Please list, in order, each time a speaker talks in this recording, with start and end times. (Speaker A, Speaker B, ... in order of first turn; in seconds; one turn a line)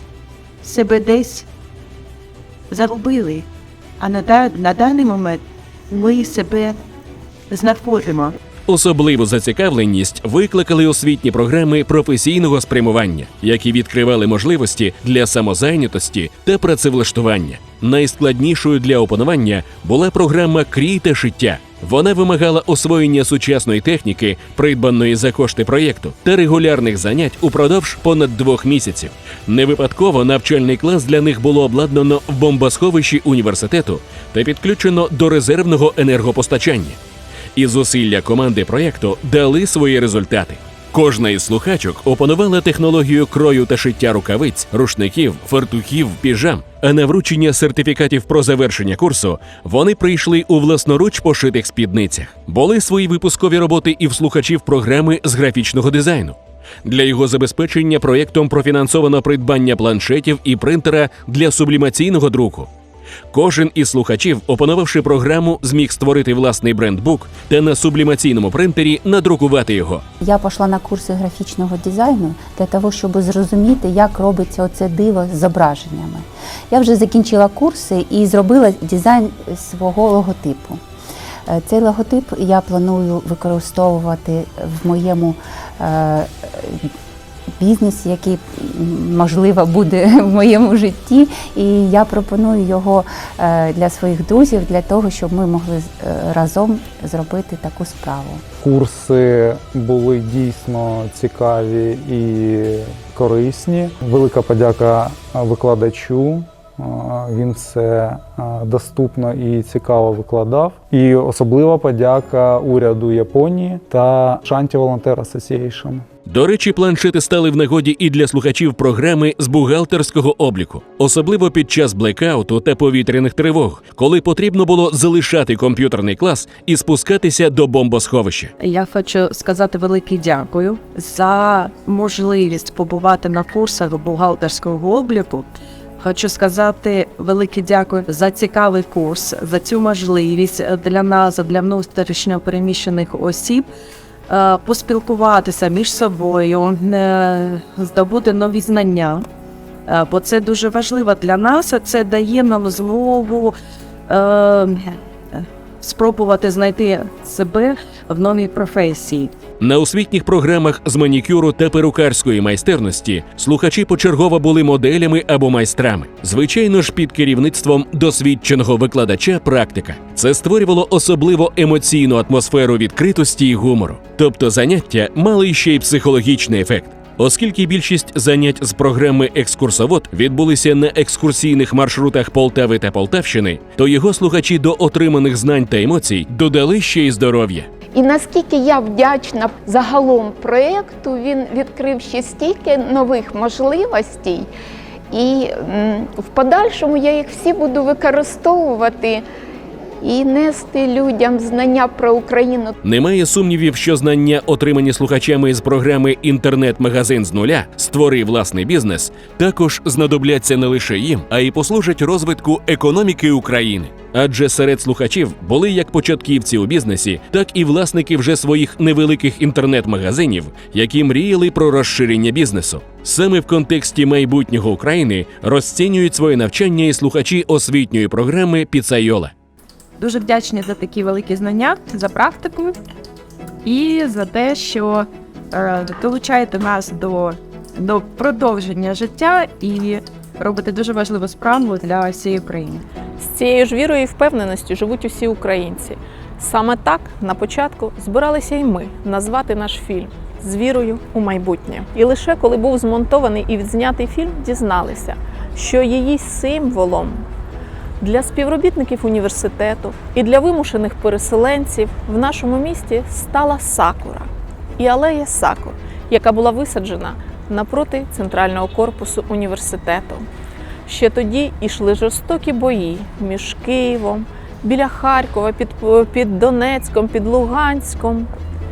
Speaker A: 0.6-1.5
Speaker A: 2.7-3.5
Speaker A: 4.0-6.8
Speaker A: 7.5-8.4
Speaker B: 8.7-37.0
Speaker B: 37.5-62.7
Speaker B: 63.3-70.0
Speaker C: 70.2-80.8
Speaker C: 81.5-86.9
Speaker C: 87.6-98.4
Speaker D: 98.6-116.0
Speaker B: 116.3-128.5
Speaker E: 128.6-143.7
Speaker E: 144.3-149.2
Speaker E: 149.9-153.5
Speaker E: 154.1-159.3
Speaker B: 159.6-187.7
Speaker F: 187.9-194.5
Speaker F: 195.1-199.2
Speaker F: 200.0-202.7
Speaker B: 202.8-229.3
Speaker E: 230.0-232.8
Speaker E: 233.6-242.8
Speaker G: 243.2-257.3
Speaker G: 258.0-270.3
Speaker G: 270.9-278.3